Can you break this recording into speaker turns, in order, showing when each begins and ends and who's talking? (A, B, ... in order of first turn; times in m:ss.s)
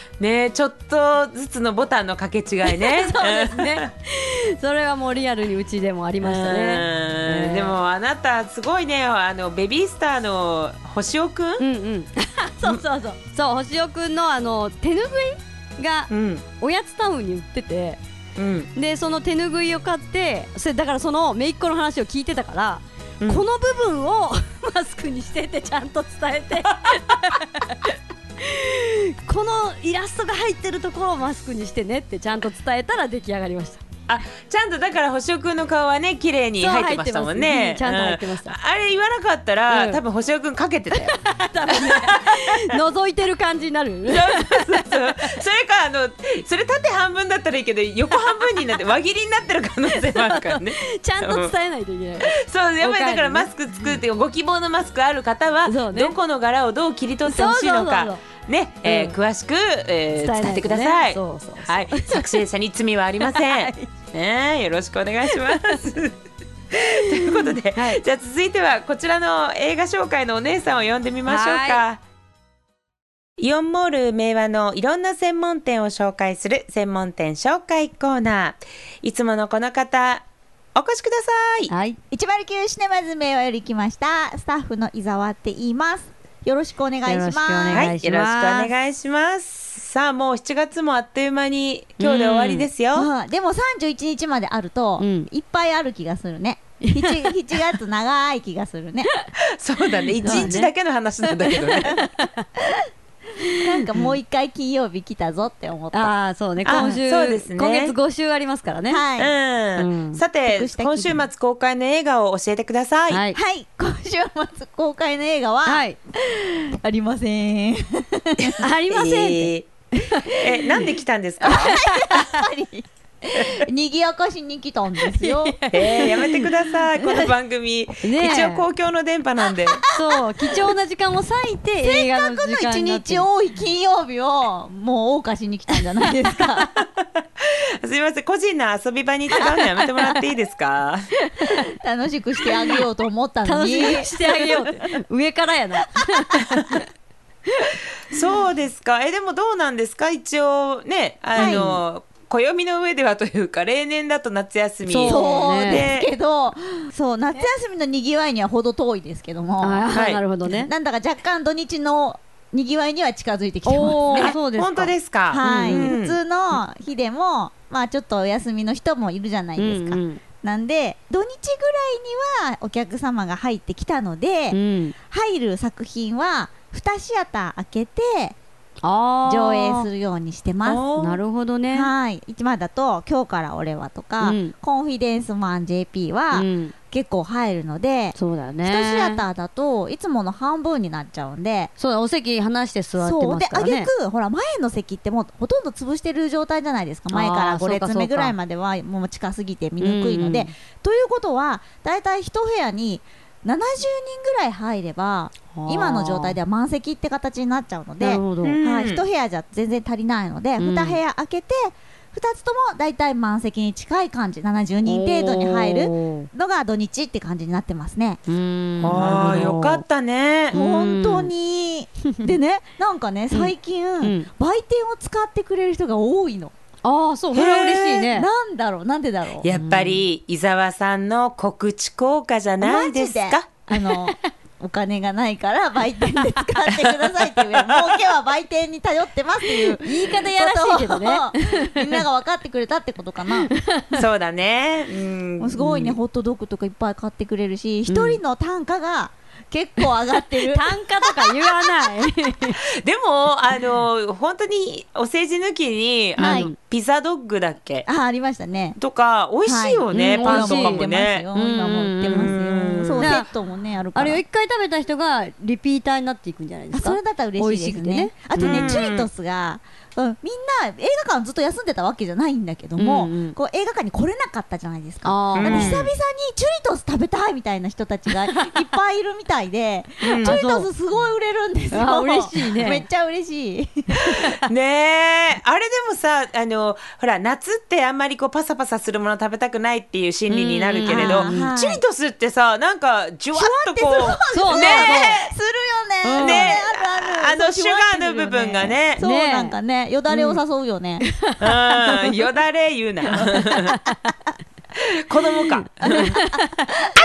0:00.2-0:03.9 A
0:02.7-0:07.7 B
0:06.2-0:11.6 A
0:11.6-0:18.0 B
0:16.1-0:16.4 A
0:18.4-0:18.7 A
0:18.7-0:33.8 B
0:34.1-0:41.2 A
0:36.6-0:38.5 B
0:39.7-0:40.0 B
0:40.9-0:44.8 B
0:41.7-0:42.5 A
0:44.1-0:51.5 A
0:49.9-0:53.9 B
0:52.2-1:06.1 A
0:55.6-0:56.2 B
0:57.2-0:58.2 B
0:58.8-0:59.2 B
1:00.2-1:02.3 B
1:03.2-1:03.8 B
1:06.7-1:12.0 A
1:07.7-1:08.0 B
1:11.2-1:11.8 B
1:13.4-1:21.7 A
1:21.7-1:22.0 B
1:22.1-1:27.9 C
1:27.0-1:28.7 B
1:27.7-1:33.1 A
1:32.0-1:32.7 B
1:32.9-1:39.1 C
1:35.0-1:35.3 B
1:36.8-1:37.3 B
1:39.6-1:42.0 A
1:40.2-1:40.7 B
1:40.2-1:40.6 C
1:41.3-1:42.4 B
1:43.4-1:44.1 B
1:43.6-1:46.1 C
1:45.9-1:49.0 B
1:46.6-1:47.9 A
1:46.6-1:46.9 C
1:48.9-1:49.3 C
1:49.2-1:53.2 A
1:49.8-1:50.2 B
1:50.4-1:51.2 C
1:53.1-1:53.4 B
1:53.3-1:58.5 C
1:55.6-1:56.0 B
1:58.4-1:59.7 A
1:58.6-2:00.3 B
2:00.3-2:01.8 A
2:01.4-2:06.0 C
2:01.5-2:02.4 B
2:05.1-2:06.5 B
2:05.7-2:09.8 A
2:08.0-2:08.6 B
2:09.9-2:13.3 B
2:11.8-2:16.7 C
2:17.8-2:21.1 A
2:21.5-2:24.5 C
2:22.4-2:22.8 B
2:23.4-2:26.8 B
2:28.1-2:36.1 A
2:31.3-2:31.8 C
2:34.8-2:35.9 B
2:35.1-2:39.9 C
2:39.6-2:40.7 B
2:39.9-2:40.2 A
2:40.4-2:44.4 C
2:43.6-2:46.0 B
2:44.1-2:46.2 A
2:45.3-2:54.6 C
2:49.6-2:50.2 B
2:54.5-2:54.9 B
2:55.1-2:58.4 C
2:58.8-2:59.9 B
2:59.2-3:00.8 C
3:00.6-3:01.2 A
3:01.0-3:01.9 B
3:01.7-3:11.7 C
3:04.2-3:04.5 B
3:06.3-3:06.7 B
3:08.1-3:09.2 B
3:11.8-3:13.9 B
3:13.0-3:38.2 C
3:17.1-3:18.3 B
3:19.8-3:20.5 B
3:25.5-3:26.4 B
3:28.0-3:28.6 B
3:28.4-3:29.0 A
3:30.6-3:31.0 B
3:34.8-3:36.3 B
3:38.3-3:39.8 B
3:38.8-3:40.5 A
3:40.5-3:41.3 B
3:40.5-3:46.5 C
3:43.3-3:44.3 B
3:46.8-3:48.3 B
3:47.3-3:48.1 A
3:48.1-3:49.5 C
3:49.4-3:53.6 A
3:49.6-3:50.0 B
3:52.6-4:03.5 C
3:59.8-4:01.9 B
4:03.4-4:04.0 B
4:03.9-4:06.0 A
4:05.4-4:11.7 C
4:05.6-4:05.9 B
4:07.8-4:08.2 B
4:10.4-4:12.6 B
4:12.8-4:17.9 A
4:16.2-4:16.5 C
4:16.2-4:16.5 B
4:17.8-4:18.8 C
4:18.8-4:21.3 A
4:19.4-4:24.2 C
4:19.9-4:22.3 B
4:22.0-4:23.2 A
4:23.0-4:23.3 B
4:23.9-4:28.8 B
4:26.7-4:44.0 C
4:28.4-4:29.1 A
4:32.8-4:33.4 B
4:35.0-4:35.8 B
4:35.3-4:35.9 A
4:40.0-4:40.4 A
4:40.2-4:40.7 B
4:41.7-4:42.8 B
4:44.1-4:55.3 A
4:50.3-4:51.5 B
4:50.9-4:51.8 C
4:53.3-5:01.0 C
4:54.3-4:55.2 B
4:56.0-4:56.5 B
4:56.2-4:59.0 A
4:59.0-4:59.6 B
5:00.1-5:00.4 A
5:01.1-5:01.9 B
5:01.4-5:03.7 A
5:03.1-5:03.7 C
5:05.0-5:06.2 A
5:05.8-5:06.6 C
5:05.9-5:06.4 B